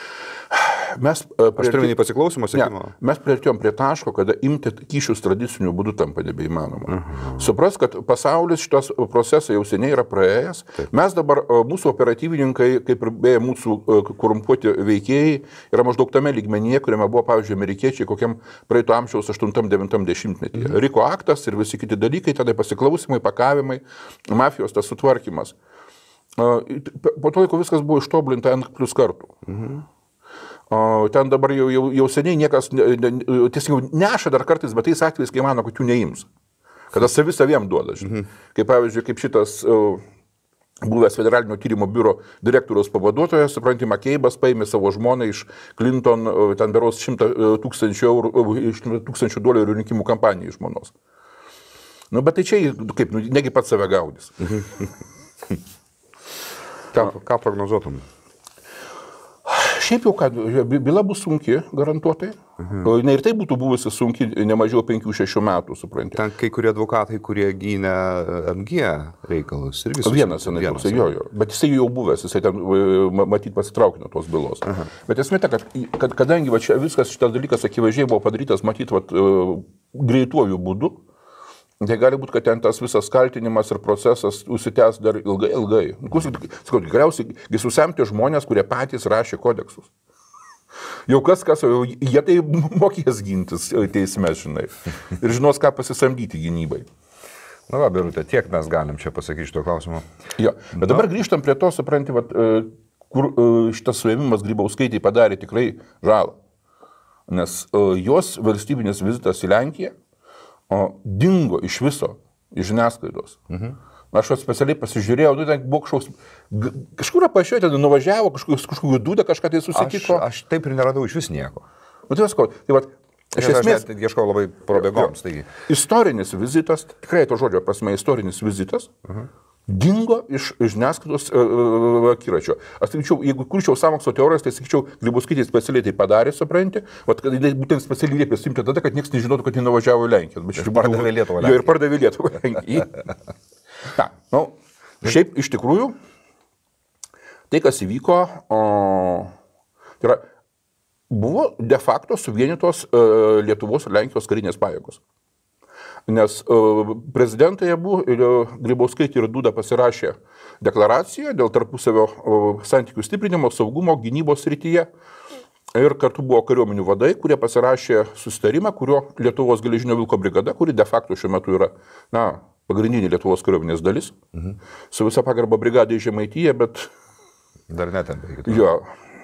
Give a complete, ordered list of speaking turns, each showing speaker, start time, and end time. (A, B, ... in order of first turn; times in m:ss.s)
0:00.5-0:01.9 A
0:01.6-0:02.9 B
0:02.5-0:25.5 A
0:06.9-0:07.3 B
0:26.4-0:29.4 A
0:29.5-0:29.8 B
0:30.7-0:36.3 A
0:36.9-0:40.0 A
0:40.8-0:50.9 A
0:52.1-0:54.7 A
0:56.9-0:58.0 B
0:59.4-1:06.2 A
1:02.6-1:02.9 B
1:06.2-1:11.1 B
1:10.0-1:21.0 A
1:21.8-1:29.9 A
1:31.1-1:36.9 A
1:37.7-1:40.0 B
1:40.4-1:46.4 A
1:47.3-1:49.9 A
1:50.7-1:53.4 A
1:54.1-2:00.2 A
1:59.7-2:01.6 B
2:02.1-2:03.8 A
2:03.3-2:05.5 B
2:04.7-2:05.1 A
2:05.6-2:08.9 A
2:09.7-2:23.1 A
2:20.5-2:21.8 B
2:23.9-2:25.9 A
2:27.5-2:29.3 A
2:31.1-2:35.0 A
2:36.1-2:44.9 A
2:45.7-2:54.1 A
2:54.9-2:56.9 A
2:57.7-2:58.6 B
2:58.4-2:58.9 A